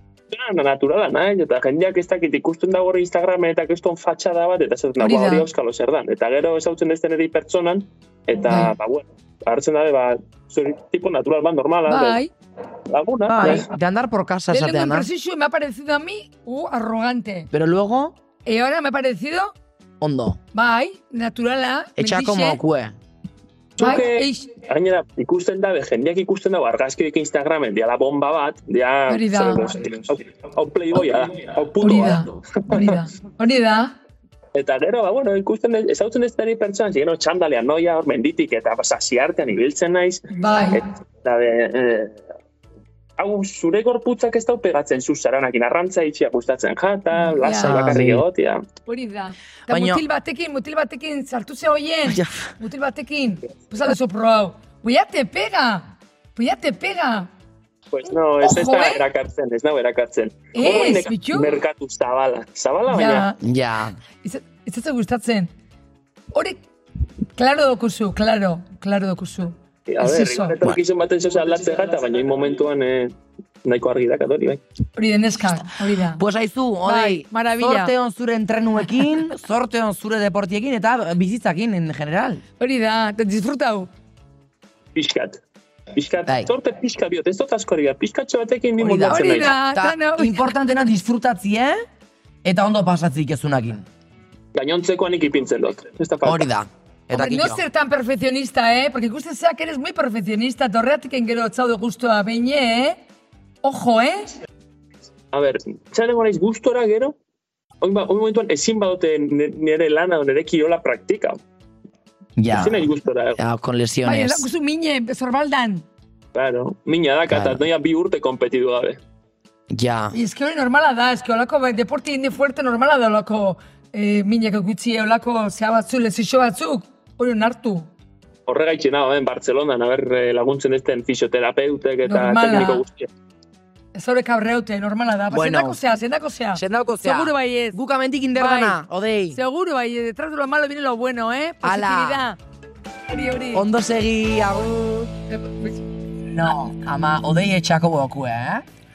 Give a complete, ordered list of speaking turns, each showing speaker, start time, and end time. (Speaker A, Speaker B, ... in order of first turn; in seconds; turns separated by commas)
Speaker A: 0.3-12.2, Speaker B: 5.0-5.5, Speaker B: 8.5-8.7, Speaker B: 11.9-12.3, Speaker A: 12.9-13.7, Speaker C: 13.3-15.1, Speaker B: 14.5-17.5, Speaker C: 17.5-18.2, Speaker B: 18.4-19.5, Speaker C: 20.0-20.4, Speaker B: 20.5-22.6, Speaker C: 22.0-23.0, Speaker A: 23.8-33.0, Speaker B: 23.8-24.5, Speaker B: 29.1-29.8, Speaker B: 31.8-34.0, Speaker A: 34.5-42.2, Speaker B: 40.3-40.8, Speaker A: 43.2-48.6, Speaker B: 47.4-47.8, Speaker C: 47.5-48.2, Speaker B: 48.9-57.3, Speaker C: 49.7-50.0, Speaker C: 52.1-52.4, Speaker A: 57.9-63.3, Speaker B: 58.4-59.0, Speaker B: 60.5-61.6, Speaker B: 62.9-63.4, Speaker C: 63.4-64.0, Speaker B: 64.2-65.5, Speaker B: 66.3-66.6, Speaker B: 67.3-70.6, Speaker A: 69.9-74.6, Speaker B: 75.0-76.2, Speaker C: 76.2-82.4, Speaker B: 76.8-77.9, Speaker B: 82.6-83.9, Speaker A: 85.0-85.4, Speaker A: 85.9-89.5, Speaker C: 88.8-91.8, Speaker B: 89.0-90.5, Speaker C: 92.4-93.8, Speaker A: 94.5-96.5, Speaker C: 96.2-97.6, Speaker B: 97.1-103.0, Speaker B: 103.6-104.3, Speaker A: 105.3-107.2, Speaker A: 107.8-111.4, Speaker C: 112.4-114.5, Speaker A: 112.5-113.4, Speaker B: 114.0-115.9, Speaker A: 116.3-119.0, Speaker C: 117.3-117.6, Speaker C: 119.7-120.2, Speaker B: 120.1-127.9, Speaker A: 128.5-133.1, Speaker B: 132.1-132.8, Speaker B: 133.9-137.8, Speaker C: 135.3-135.8, Speaker C: 136.6-139.4, Speaker B: 138.3-138.8, Speaker B: 139.3-142.4, Speaker C: 141.6-142.3, Speaker B: 143.1-143.7, Speaker C: 143.5-145.1, Speaker B: 145.3-145.8, Speaker C: 146.2-148.7